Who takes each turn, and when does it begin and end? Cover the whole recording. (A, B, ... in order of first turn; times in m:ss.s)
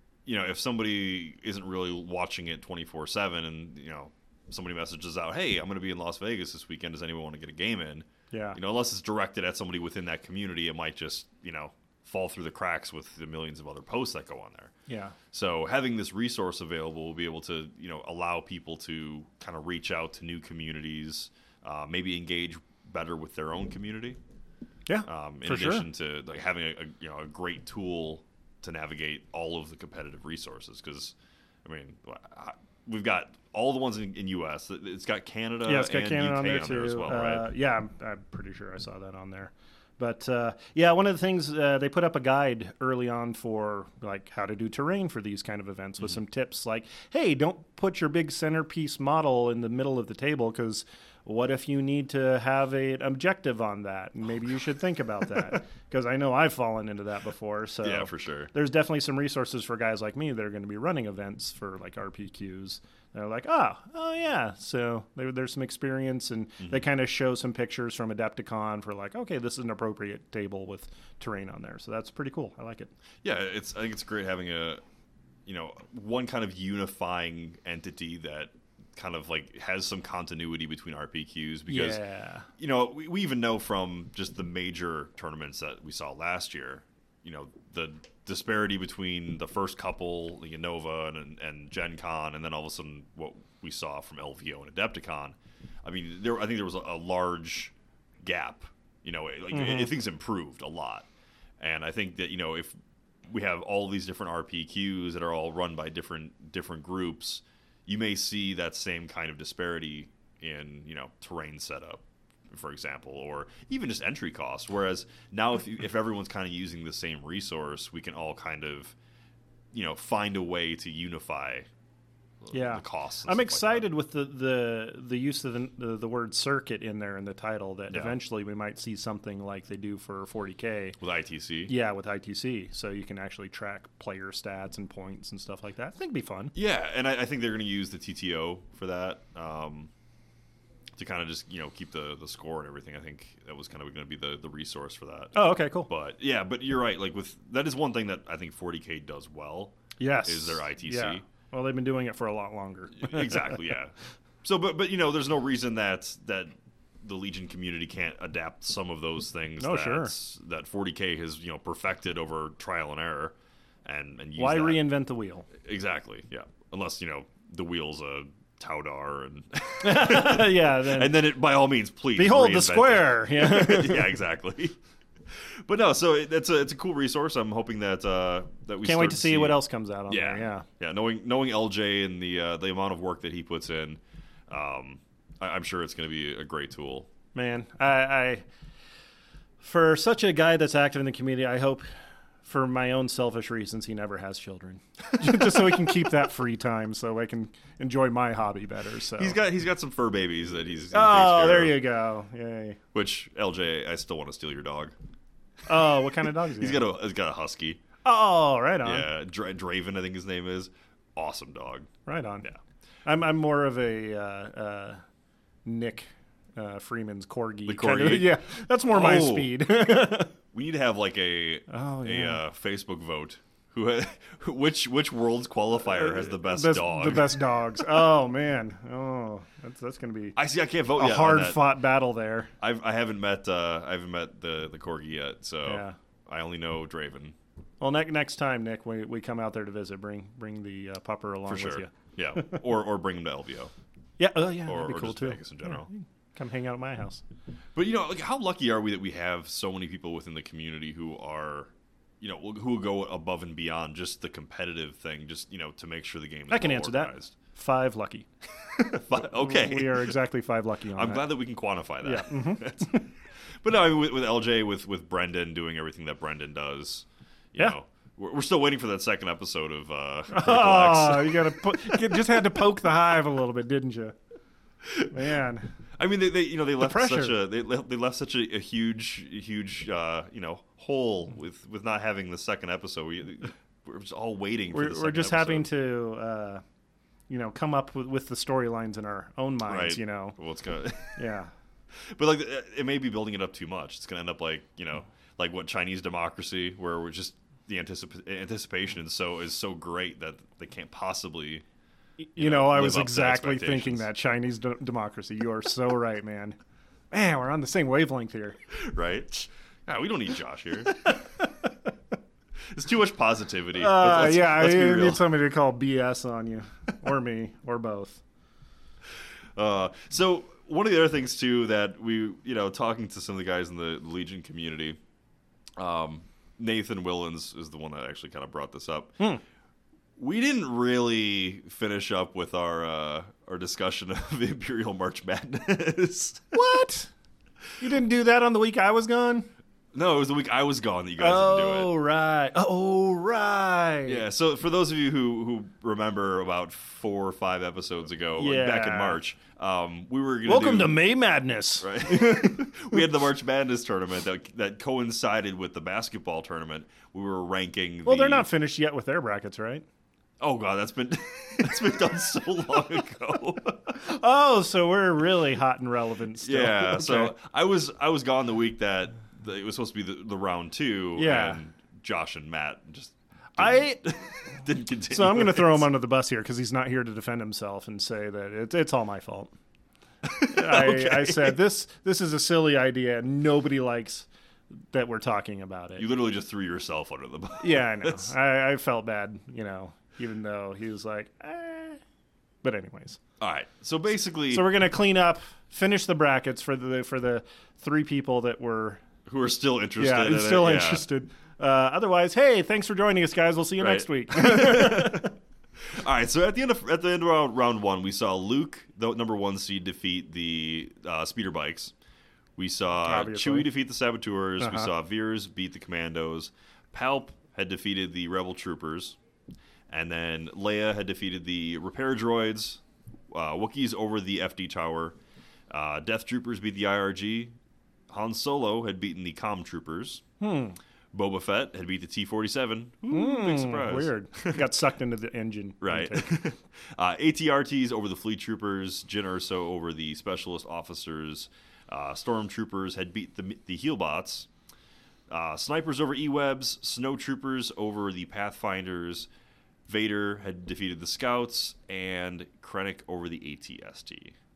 0:00.3-0:14.7 A
0:08.3-0:08.6 B
0:14.9-0:15.2 B
0:15.3-0:24.2 A
0:24.9-0:25.9 B
0:25.1-0:37.5 A
0:35.6-1:12.9 B
0:57.8-0:58.5 A
1:13.2-1:14.8 A
1:15.5-1:22.0 A
1:21.7-1:22.5 B
1:22.6-1:41.1 A
1:39.5-1:39.9 B
1:41.6-1:42.8 A
1:43.3-1:59.0 A
1:59.7-2:01.7 A
2:02.4-2:03.9 A
2:02.5-2:11.0 B
2:07.9-2:08.2 A
2:11.0-2:11.7 A
2:11.7-2:16.5 B
2:16.5-2:19.9 A
2:21.0-2:25.4 A
2:25.4-2:25.9 B
2:25.9-2:31.2 A
2:30.0-2:33.6 B
2:33.0-2:44.8 A
2:39.6-2:40.1 B
2:44.4-2:45.5 B
2:45.6-3:07.1 A
2:49.8-2:51.1 B
2:52.2-2:54.2 B
2:58.8-3:00.7 B
3:07.4-3:08.5 B
3:09.6-3:11.9 B
3:12.4-3:19.4 B
3:15.2-3:15.8 A
3:19.2-3:21.8 A
3:20.9-3:22.8 B
3:22.9-3:25.0 A
3:25.7-3:26.9 B
3:25.8-3:27.8 A
3:28.0-3:29.1 B
3:28.8-3:31.9 A
3:32.1-3:32.5 B
3:33.0-3:35.0 B
3:35.6-3:40.3 B
3:37.7-3:39.5 A
3:40.5-3:48.0 A
3:41.7-3:42.4 B
3:45.9-3:50.4 B
3:50.4-3:51.7 A
3:51.0-3:52.5 B
3:52.6-3:57.4 A
3:55.6-3:56.0 B
3:57.8-4:02.6 B
4:01.5-4:03.7 A
4:04.2-4:07.2 B
4:04.6-4:05.9 A
4:07.8-4:17.4 A
4:16.5-4:18.3 B
4:18.8-4:20.2 A
4:19.2-4:21.3 B
4:20.9-4:23.1 A
4:22.0-4:23.1 B
4:23.6-4:32.6 A
4:30.3-4:34.2 B
4:34.8-4:35.1 A
4:35.1-4:35.7 B
4:36.0-4:45.7 A
4:36.8-4:37.4 B
4:44.7-4:46.6 B
4:47.3-4:50.4 B
4:49.7-4:51.2 A
4:51.2-4:51.5 B
4:51.9-5:01.6 A
5:02.2-5:06.6 B
5:02.4-5:04.1 A
5:07.1-5:08.6 B
5:08.7-5:11.1 A
5:10.9-5:11.7 B
5:12.7-5:15.2 A
5:13.8-5:18.2 B
5:19.6-5:25.0 A
5:25.8-5:29.2 A
5:30.2-5:36.5 A
5:36.5-5:37.1 B
5:37.8-5:39.5 B
5:39.9-5:41.9 A
5:41.2-5:44.2 B
5:44.1-5:51.0 A
5:48.4-5:49.2 B
5:50.5-5:53.0 B
5:51.8-5:58.5 A
5:58.0-5:59.8 B
6:00.4-6:04.0 A
6:04.0-6:07.3 B
6:06.4-6:15.9 A
6:11.2-6:11.6 B
6:13.6-6:14.0 B
6:15.1-6:19.5 B
6:20.2-6:21.6 A
6:20.5-6:24.3 B
6:24.9-6:26.1 B
6:26.0-6:28.3 A
6:27.6-6:32.0 B
6:32.6-6:33.2 B
6:33.4-6:34.7 A
6:34.5-6:39.0 B
6:39.3-6:41.1 A
6:40.0-6:45.3 B
6:43.8-6:51.9 A
6:52.6-6:59.2 A
6:53.0-6:53.7 B
6:54.6-6:54.9 B
6:59.9-7:05.2 A
7:05.7-7:07.5 A
7:08.1-7:10.2 A
7:10.4-7:10.8 B
7:11.1-7:14.7 A
7:13.1-7:16.4 B
7:15.8-7:24.5 A
7:25.3-7:29.3 A
7:29.9-7:34.4 A